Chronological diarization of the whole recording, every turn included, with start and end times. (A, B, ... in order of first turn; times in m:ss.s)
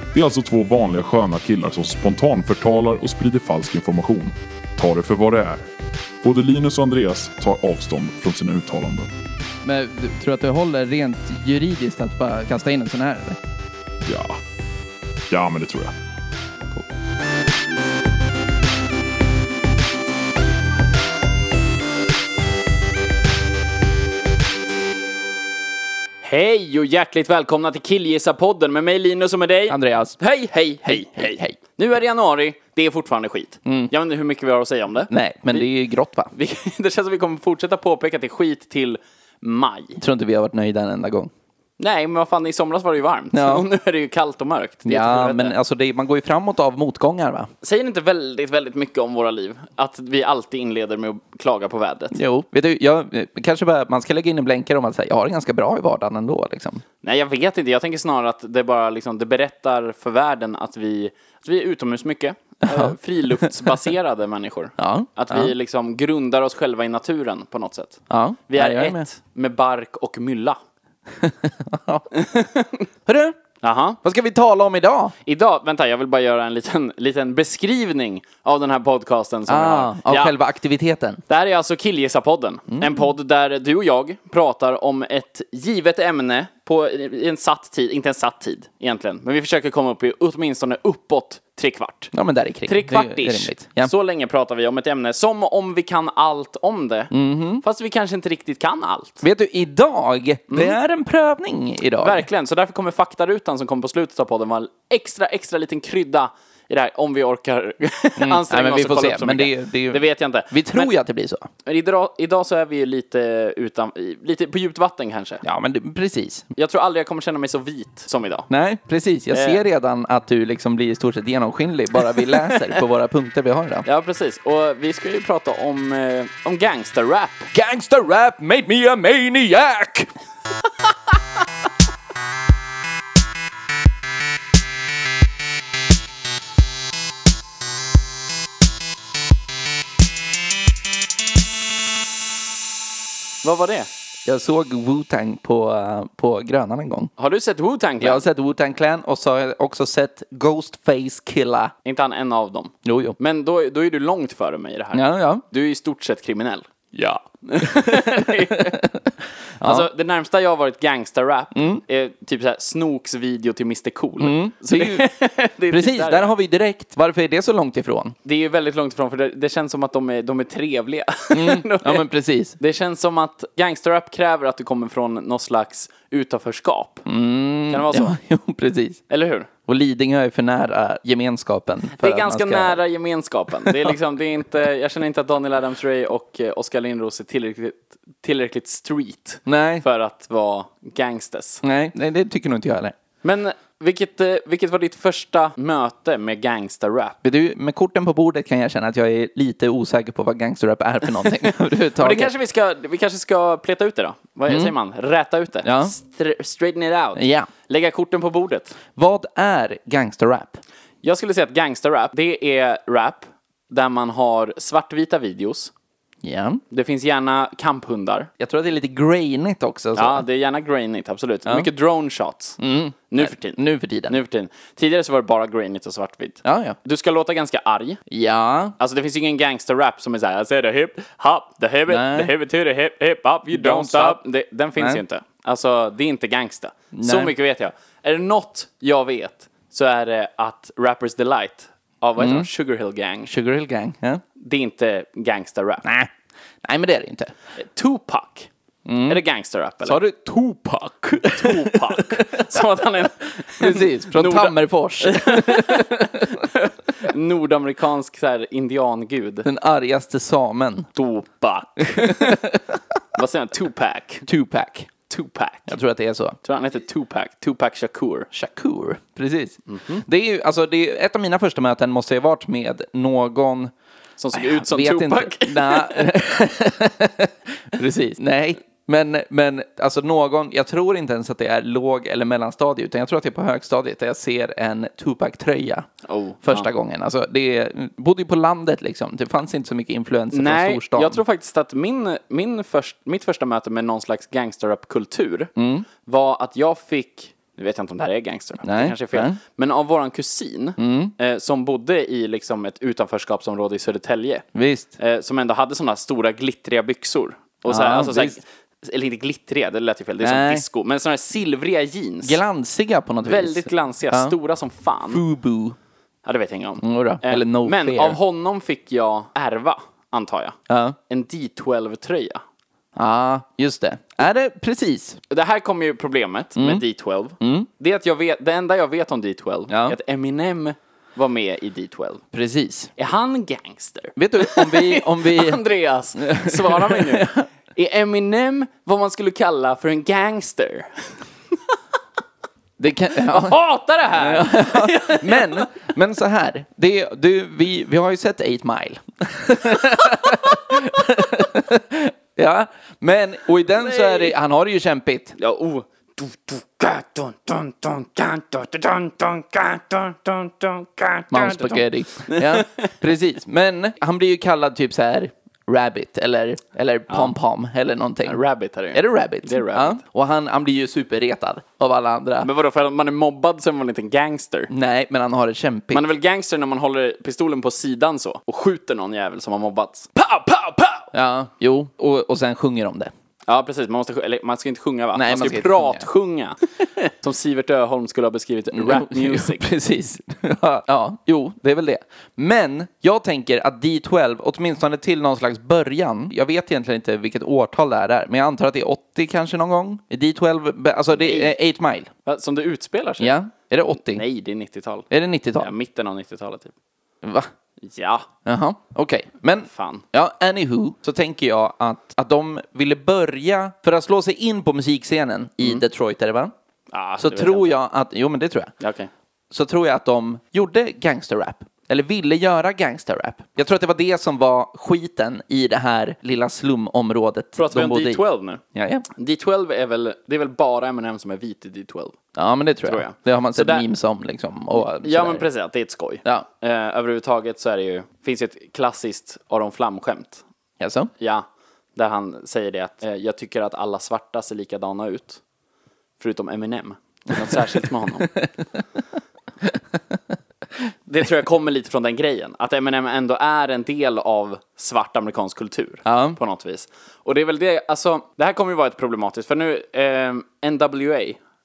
0:00.1-0:05.7 A
0:06.2-0:09.1 A
0:09.6-0:13.4 B
0:14.0-0:14.4 A
0:15.3-0:15.9 A
0:26.2-0:35.6 C
0:29.7-0:30.2 B
0:30.8-0:31.6 B
0:33.6-0:33.9 B
0:35.1-0:36.3 B
0:36.3-0:40.0 C
0:40.0-0:41.3 B
0:41.8-0:45.6 C
0:43.3-0:43.6 B
0:44.8-0:47.5 B
0:47.6-0:52.1 C
0:52.1-0:56.8 B
0:57.0-1:10.6 C
1:02.6-1:03.8 B
1:04.8-1:05.5 B
1:08.1-1:09.0 B
1:11.1-1:12.1 B
1:12.1-1:12.8 C
1:13.0-1:13.4 B
1:13.6-1:14.0 C
1:14.0-1:15.1 B
1:15.2-1:20.3 C
1:19.5-1:21.2 B
1:21.3-1:32.1 C
1:22.7-1:23.0 B
1:32.1-1:33.9 B
1:32.6-1:39.2 C
1:37.1-1:37.6 B
1:39.2-1:42.2 B
1:40.5-1:40.8 C
1:42.0-1:50.9 C
1:48.2-1:51.5 B
1:51.6-1:55.4 C
1:55.4-1:56.5 B
1:56.6-1:58.5 C
1:58.5-2:03.8 B
1:59.3-1:59.6 C
2:03.8-2:07.5 C
2:07.5-2:10.1 B
2:23.4-2:23.9 C
2:24.2-2:27.1 B
2:27.2-2:28.2 C
2:28.0-2:31.7 B
2:31.8-2:36.7 C
2:32.8-2:33.2 B
2:34.9-2:35.4 B
2:36.9-2:39.9 B
2:37.4-2:38.8 C
2:39.6-2:46.3 C
2:41.5-2:41.8 B
2:44.2-2:45.1 B
2:45.7-2:48.1 B
2:48.2-2:52.1 C
2:51.3-2:52.6 B
2:52.6-2:57.1 C
2:57.0-2:59.0 B
2:57.7-2:58.1 C
2:59.1-2:59.5 C
2:59.7-3:02.8 B
3:02.0-3:11.6 C
3:03.6-3:03.9 B
3:09.4-3:09.8 B
3:11.6-3:12.9 B
3:13.2-3:17.2 C
3:17.2-3:22.3 B
3:22.0-3:28.8 C
3:24.5-3:24.7 B
3:25.6-3:25.9 B
3:27.2-3:27.5 B
3:29.0-3:30.6 B
3:31.0-3:35.7 C
3:36.2-3:36.6 B
3:36.7-3:38.3 C
3:38.4-3:40.2 B
3:39.9-3:42.6 C
3:42.6-3:44.2 B
3:43.1-3:48.0 C
3:46.4-3:46.8 B
3:48.1-3:48.8 B
3:48.8-4:03.3 C
3:51.9-3:52.3 B
3:53.5-3:54.2 B
3:54.8-3:55.0 B
3:56.9-3:57.3 B
4:02.2-4:02.5 B
4:03.3-4:04.2 B
4:04.4-4:05.9 C
4:05.8-4:06.1 B
4:06.6-4:07.3 B
4:07.6-4:08.5 C
4:08.8-4:09.2 B
4:09.0-4:10.0 C
4:09.8-4:12.6 B
4:11.2-4:19.5 C
4:13.3-4:16.3 B
4:19.4-4:20.9 B
4:21.0-4:22.4 C
4:21.8-4:23.0 B
4:23.1-4:24.2 C
4:24.2-4:24.9 B
4:25.1-4:25.7 C
4:25.7-4:26.4 B
4:26.4-4:28.3 C
4:28.3-4:33.7 B
4:29.7-4:30.0 C
4:34.2-4:36.1 C
4:34.3-4:45.9 B
4:46.0-4:46.7 C
4:46.4-4:51.2 B
4:50.3-4:55.5 C
4:55.6-4:55.8 B
4:56.0-5:04.4 C
4:58.6-4:59.4 B
5:00.8-5:01.1 B
5:04.5-5:04.9 B
5:05.0-5:12.4 C
5:07.7-5:08.4 B
5:10.2-5:10.6 B
5:12.2-5:14.3 B
5:13.2-5:15.2 C
5:15.1-5:15.8 B
5:16.2-5:20.6 C
5:16.8-5:18.2 B
5:20.7-5:21.0 B
5:21.1-5:22.4 C
5:23.0-5:25.2 B
5:25.3-5:32.2 C
5:26.6-5:26.8 B
5:27.4-5:27.7 B
5:29.7-5:30.0 B
5:32.3-5:32.9 B
5:33.0-5:40.9 C
5:34.2-5:35.6 B
5:36.2-5:37.4 B
5:42.8-5:55.3 B
5:43.3-5:45.7 C
5:53.7-5:54.3 C
5:55.4-6:03.0 C
6:01.3-6:08.4 B
6:08.3-6:10.0 C
6:08.9-6:12.5 B
6:12.4-6:14.7 C
6:14.7-6:16.1 B
6:15.9-6:21.1 C
6:21.1-6:23.1 B
6:23.5-6:29.6 C
6:25.1-6:26.0 B
6:28.7-6:42.1 B
6:41.1-6:41.5 C
6:42.2-6:43.4 C
6:43.2-6:44.2 B
6:44.0-6:46.7 C
6:45.1-6:45.7 B
6:47.2-6:47.5 B
6:47.8-6:48.3 C
6:48.4-6:56.5 B
6:49.7-6:50.0 C
6:56.9-6:57.7 C
6:57.2-6:58.7 B
6:58.8-6:59.1 C
6:59.5-7:08.2 B
7:07.6-7:08.6 C
7:08.7-7:09.0 B
7:09.2-7:12.2 C
7:12.4-7:15.4 B
7:12.8-7:13.9 C
7:14.7-7:20.4 C
7:20.8-7:21.1 B
7:21.2-7:25.4 C
7:26.2-7:28.3 C
7:29.6-7:30.2 B
7:31.1-7:41.4 C
7:36.0-7:36.4 B